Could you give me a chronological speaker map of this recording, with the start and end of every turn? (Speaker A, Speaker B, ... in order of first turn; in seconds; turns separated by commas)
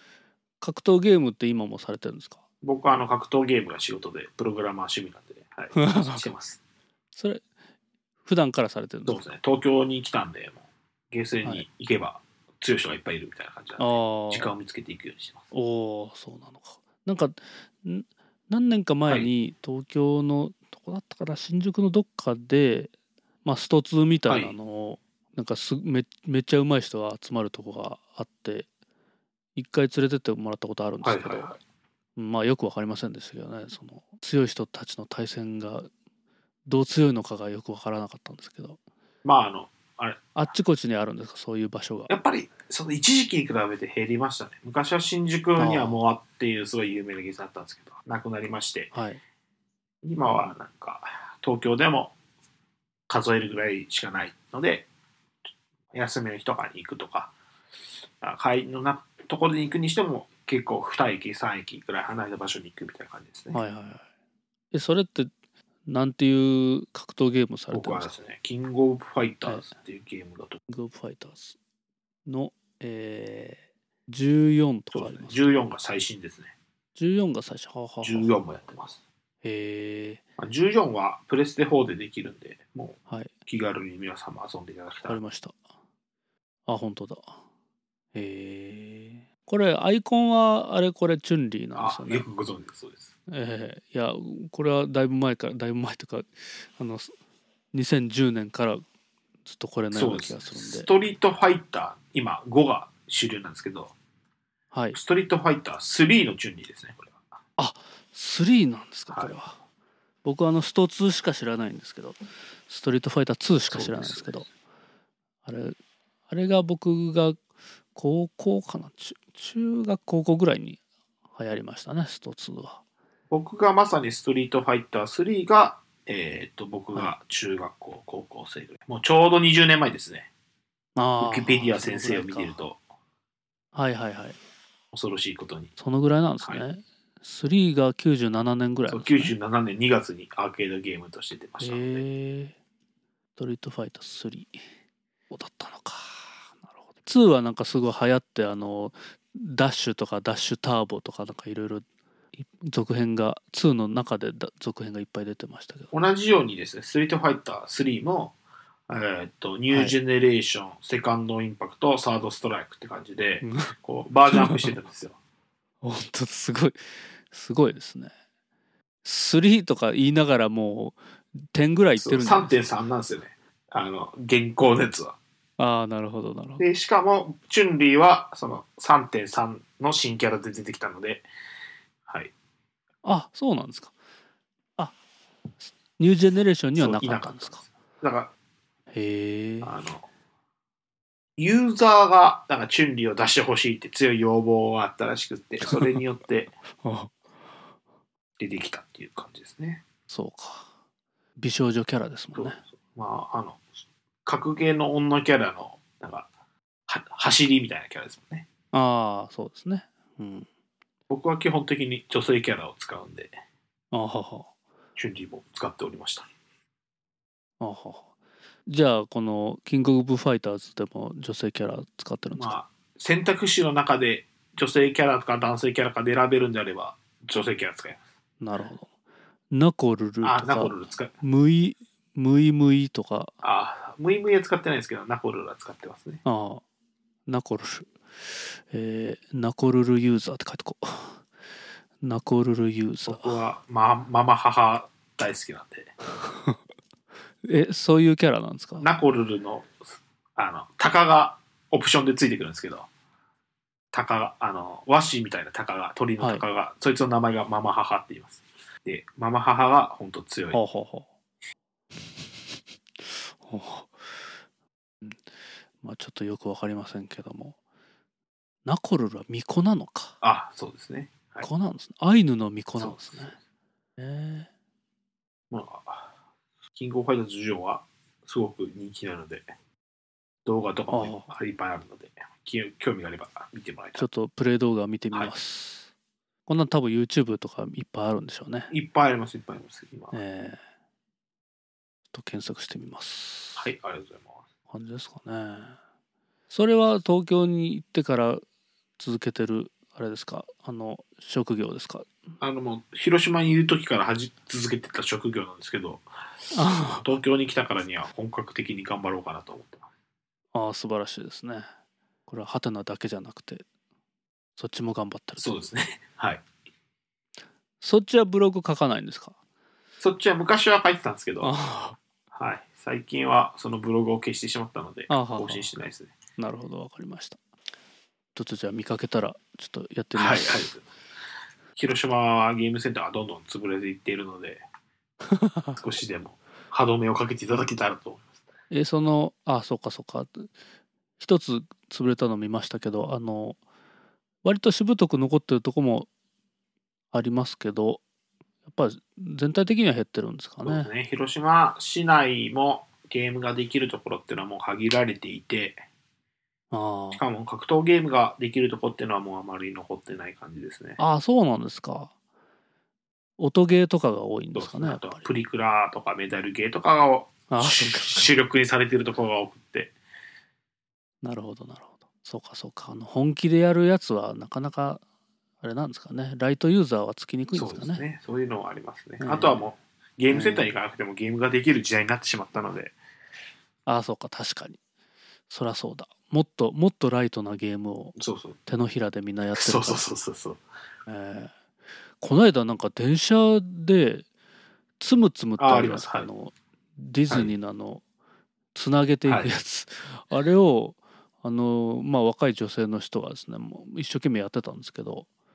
Speaker A: 0.6-2.4, Speaker B: 2.6-6.6, Speaker A: 5.7-6.3, Speaker A: 7.1-7.4, Speaker A: 8.2-9.2, Speaker B: 9.0-15.5, Speaker A: 13.8-14.5, Speaker A: 15.5-22.9, Speaker A: 23.4-28.7, Speaker B: 24.3-24.6, Speaker A: 29.6-31.5, Speaker B: 31.0-31.6, Speaker A: 32.2-35.9, Speaker A: 36.7-38.8, Speaker B: 39.2-40.3, Speaker A: 40.4-42.1, Speaker B: 42.1-48.9, Speaker A: 45.6-46.0, Speaker A: 48.9-49.2, Speaker B: 50.0-52.1, Speaker B: 53.1-54.9, Speaker B: 55.9-57.3, Speaker B: 58.2-63.6, Speaker A: 63.5-64.0, Speaker A: 64.7-65.3, Speaker A: 65.9-68.1, Speaker B: 67.7-70.6, Speaker A: 70.7-71.6, Speaker A: 72.2-75.5, Speaker B: 74.9-76.5, Speaker A: 77.0-78.3, Speaker B: 78.0-79.0, Speaker A: 79.4-80.2, Speaker B: 80.4-85.2, Speaker A: 85.1-85.5, Speaker A: 86.7-87.3, Speaker A: 88.1-92.3, Speaker B: 91.8-93.1, Speaker A: 93.3-97.1, Speaker A: 97.7-98.8, Speaker A: 99.5-100.9, Speaker B: 99.9-103.9, Speaker A: 104.7-105.0, Speaker B: 104.9-107.2, Speaker A: 107.6-109.5, Speaker B: 109.1-109.4, Speaker A: 110.2-114.5, Speaker B: 113.7-114.4, Speaker A: 115.4-115.8, Speaker A: 116.3-117.4, Speaker A: 117.9-120.8, Speaker A: 121.3-122.8, Speaker B: 123.3-130.3, Speaker A: 130.9-132.6, Speaker B: 131.2-132.8, Speaker A: 133.7-134.4, Speaker B: 134.9-135.7, Speaker A: 135.8-139.3, Speaker B: 138.9-142.0, Speaker A: 141.6-142.5, Speaker A: 143.4-144.6, Speaker A: 145.3-151.8, Speaker A: 152.3-155.9, Speaker B: 155.9-158.3, Speaker B: 158.9-165.2, Speaker A: 159.7-159.9, Speaker A: 163.4-163.7, Speaker A: 164.3-164.7, Speaker A: 165.8-168.1, Speaker A: 169.0-172.6, Speaker B: 172.0-175.2, Speaker A: 175.6-176.6, Speaker B: 176.6-181.3, Speaker B: 182.1-182.3, Speaker A: 183.0-183.9, Speaker A: 185.6-187.6, Speaker B: 186.7-188.3, Speaker A: 188.9-189.7, Speaker B: 189.6-190.1, Speaker B: 191.4-196.5, Speaker A: 195.6-196.0, Speaker A: 196.8-197.1, Speaker B: 198.4-199.8, Speaker A: 200.1-200.7, Speaker A: 201.4-202.6, Speaker B: 202.3-203.6, Speaker B: 204.2-206.3, Speaker B: 206.9-208.4, Speaker A: 208.7-210.5, Speaker B: 211.1-213.3, Speaker A: 213.9-214.5, Speaker B: 215.0-216.3, Speaker A: 217.6-218.1, Speaker A: 218.7-222.6, Speaker B: 222.3-228.0, Speaker A: 228.4-228.9, Speaker A: 229.5-233.3, Speaker B: 230.2-231.1, Speaker B: 233.4-236.2, Speaker A: 236.2-236.6, Speaker A: 237.3-241.2, Speaker A: 242.0-243.4, Speaker B: 243.1-245.9, Speaker A: 246.3-246.6, Speaker A: 247.4-248.9, Speaker B: 248.8-249.7, Speaker B: 250.3-252.9, Speaker B: 253.9-260.6, Speaker A: 256.2-256.4, Speaker A: 260.5-261.1, Speaker A: 263.0-263.9, Speaker A: 265.8-267.6, Speaker A: 268.6-270.2, Speaker B: 270.2-271.4, Speaker A: 271.4-273.4, Speaker B: 272.8-273.3, Speaker A: 274.0-274.5, Speaker B: 275.5-276.1, Speaker B: 276.7-279.5, Speaker B: 280.4-284.1, Speaker A: 280.9-281.3, Speaker A: 284.0-285.9, Speaker A: 286.5-288.7, Speaker B: 288.7-290.2, Speaker A: 290.1-290.6, Speaker A: 292.1-293.7, Speaker B: 293.6-294.4, Speaker A: 294.7-295.8, Speaker A: 296.5-298.4, Speaker A: 299.0-302.1, Speaker B: 302.4-306.1, Speaker A: 306.5-307.1, Speaker B: 307.0-309.9, Speaker A: 310.5-311.7, Speaker A: 312.3-313.6, Speaker A: 314.6-315.6, Speaker B: 315.4-316.4, Speaker A: 317.8-319.4, Speaker B: 320.0-321.5, Speaker A: 321.4-322.0, Speaker B: 322.3-326.1, Speaker A: 325.1-325.7, Speaker A: 326.4-327.4, Speaker A: 328.3-330.7, Speaker B: 330.1-330.8, Speaker B: 331.8-334.6, Speaker A: 335.3-335.8, Speaker B: 335.8-338.3, Speaker A: 338.7-340.5, Speaker A: 341.2-343.6, Speaker A: 344.4-346.1, Speaker A: 347.1-348.0, Speaker A: 348.7-350.9, Speaker B: 350.6-355.8, Speaker A: 356.7-357.2, Speaker B: 357.1-361.0, Speaker A: 361.0-362.1, Speaker A: 363.4-365.2, Speaker B: 364.5-369.9, Speaker A: 367.5-368.3, Speaker A: 371.2-375.0, Speaker A: 375.6-378.0, Speaker B: 377.5-382.9, Speaker A: 379.2-379.7, Speaker A: 380.3-380.7, Speaker A: 383.9-384.8, Speaker A: 385.5-390.1, Speaker B: 388.2-388.6, Speaker B: 389.6-390.6, Speaker A: 391.1-391.5, Speaker A: 392.2-394.2, Speaker A: 395.0-398.0, Speaker B: 395.6-396.3, Speaker A: 398.7-405.3, Speaker B: 399.2-399.5